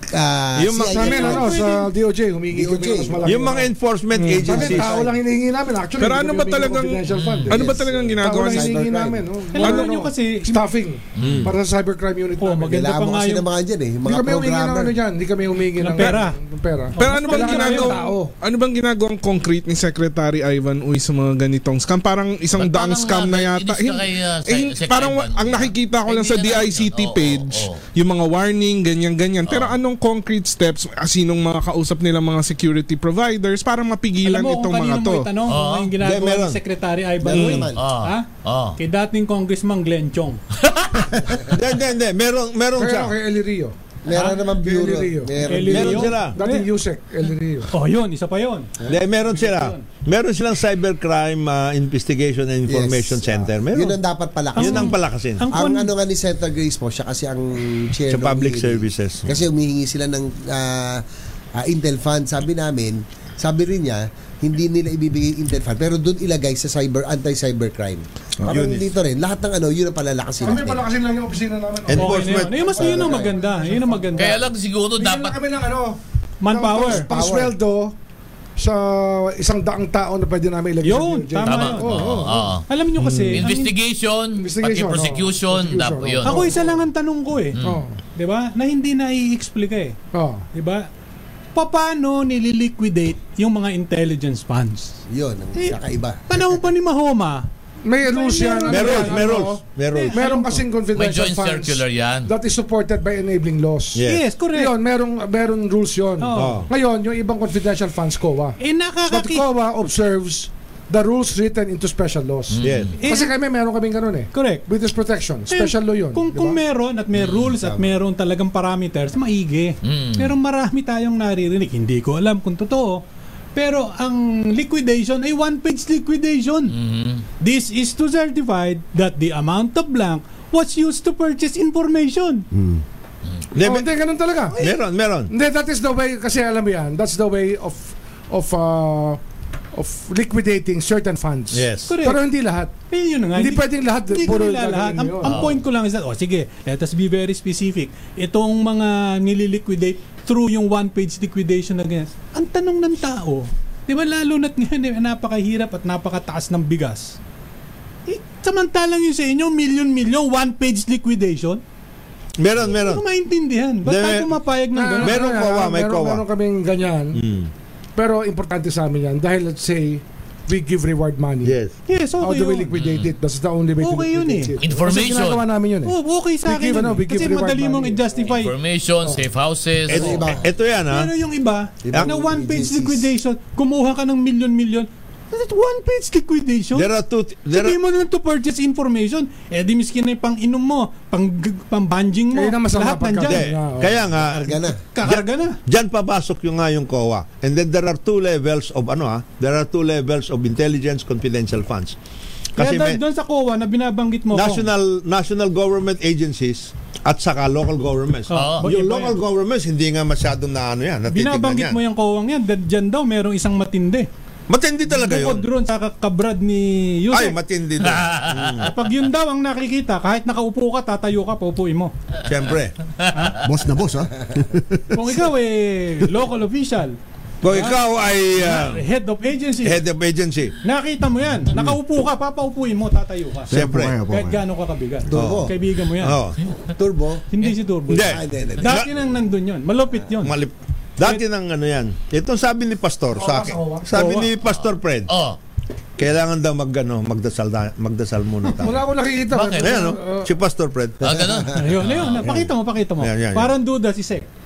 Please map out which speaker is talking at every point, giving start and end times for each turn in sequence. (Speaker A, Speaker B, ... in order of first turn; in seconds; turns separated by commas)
Speaker A: 0.1-1.6, Speaker B: 0.6-1.3, Speaker C: 0.8-3.7, Speaker D: 1.0-1.9, Speaker A: 2.5-3.5, Speaker B: 3.2-4.9, Speaker E: 4.1-4.5, Speaker A: 4.4-5.2, Speaker C: 4.4-12.8, Speaker E: 6.0-8.8, Speaker F: 7.1-7.5, Speaker A: 7.5-9.2, Speaker D: 9.5-10.6, Speaker E: 9.6-9.9, Speaker F: 11.2-11.5, Speaker B: 11.2-11.5, Speaker D: 12.4-13.5, Speaker A: 12.7-14.9, Speaker C: 14.0-18.3, Speaker D: 15.8-16.4, Speaker D: 16.9-18.1, Speaker E: 17.0-35.4, Speaker F: 22.6-27.8, Speaker F: 29.5-29.7, Speaker D: 34.2-38.2, Speaker F: 35.5-35.9, Speaker B: 36.0-36.6, Speaker A: 37.2-37.8, Speaker F: 37.5-38.8, Speaker D: 38.8-40.4, Speaker F: 40.6-41.1, Speaker B: 41.5-43.1, Speaker C: 42.8-47.7, Speaker A: 44.0-46.2, Speaker D: 44.1-44.4, Speaker D: 45.4-46.6, Speaker B: 45.7-46.4, Speaker D: 47.7-49.8, Speaker B: 48.9-54.0, Speaker A: 52.7-61.0, Speaker D: 54.5-55.9, Speaker B: 54.6-55.5, Speaker B: 58.1-59.4, Speaker A: 61.5-70.8, Speaker B: 68.5-68.9, Speaker C: 70.4-77.9, Speaker B: 71.9-73.1, Speaker D: 71.9-74.4, Speaker A: 72.8-73.3, Speaker F: 74.2-75.4, Speaker D: 76.4-77.1, Speaker A: 76.9-77.5, Speaker C: 78.6-82.5, Speaker D: 80.8-83.7, Speaker F: 81.4-82.6, Speaker E: 83.0-83.4, Speaker F: 83.3-86.5, Speaker C: 84.4-86.6, Speaker D: 86.2-87.5, Speaker F: 87.5-87.8, Speaker C: 87.6-88.0, Speaker D: 88.2-90.0, Speaker C: 90.1-90.5, Speaker D: 90.5-90.9, Speaker D: 91.5-95.0, Speaker A: 95.1-96.4, Speaker D: 95.5-97.5, Speaker C: 97.8-99.6, Speaker D: 98.0-100.6, Speaker B: 98.7-100.2, Speaker C: 100.1-116.6, Speaker F: 100.9-102.3, Speaker B: 103.9-104.2, Speaker D: 104.0-104.7, Speaker D: 106.2-106.6, Speaker B: 106.3-106.7, Speaker D: 108.6-109.5, Speaker F: 112.5-112.9, Speaker B: 112.6-112.9, Speaker D: 113.0-113.3, Speaker D: 114.3-114.6, Speaker D: 115.5-123.0, Speaker A: 117.5-117.8, Speaker F: 119.8-120.3, Speaker D: 123.5-126.7, Speaker F: 126.7-127.2, Speaker D: 127.4-132.4, Speaker B: 133.5-133.9, Speaker C: 133.6-134.6, Speaker B: 134.6-135.3, Speaker C: 135.3-139.2, Speaker C: 139.7-142.7, Speaker B: 141.5-141.9, Speaker D: 141.9-142.3, Speaker D: 142.9-157.2, Speaker C: 143.3-145.5, Speaker F: 145.2-145.6, Speaker D: 158.1-161.6, Speaker B: 162.4-163.0, Speaker D: 162.7-165.2, Speaker B: 163.8-164.4, Speaker C: 164.7-167.2, Speaker B: 165.0-166.2, Speaker B: 167.1-167.5, Speaker C: 167.9-171.6, Speaker B: 171.4-171.7, Speaker D: 171.9-172.7, Speaker C: 172.2-178.3, Speaker F: 172.7-173.1, Speaker D: 173.8-174.5, Speaker F: 174.6-175.4, Speaker D: 175.8-178.5, Speaker F: 178.2-180.4, Speaker B: 179.9-181.1, Speaker A: 179.9-180.4, Speaker D: 180.9-186.9, Speaker A: 181.9-183.1, Speaker B: 186.7-187.8, Speaker D: 187.5-193.5, Speaker C: 192.3-194.1, Speaker B: 193.3-201.9, Speaker A: 194.2-194.8, Speaker D: 194.9-195.6, Speaker D: 202.6-204.7, Speaker B: 202.6-203.0, Speaker B: 204.3-211.8, Speaker D: 208.3-209.2, Speaker F: 208.3-208.6, Speaker D: 211.1-214.1, Speaker B: 214.5-215.5, Speaker D: 214.9-217.4, Speaker B: 217.1-218.7, Speaker F: 217.8-218.7, Speaker D: 218.6-221.9, Speaker B: 222.2-222.7, Speaker F: 223.0-223.3, Speaker G: 223.3-224.6, Speaker D: 224.9-227.8, Speaker B: 227.4-228.8, Speaker D: 228.3-229.8, Speaker B: 229.6-230.5, Speaker D: 230.6-236.2, Speaker G: 233.5-234.4, Speaker B: 233.5-234.0, Speaker A: 235.1-235.5, Speaker B: 235.1-236.4, Speaker A: 236.8-237.2, Speaker D: 237.3-240.4, Speaker B: 237.9-238.9, Speaker A: 238.0-238.8, Speaker B: 240.2-245.1, Speaker C: 243.1-243.9, Speaker D: 243.9-244.3, Speaker F: 245.1-245.4, Speaker B: 246.0-248.8, Speaker C: 248.6-250.3, Speaker F: 249.3-249.8, Speaker B: 249.6-251.2, Speaker F: 251.0-252.2, Speaker A: 251.0-251.5, Speaker D: 251.5-254.3, Speaker B: 252.2-253.5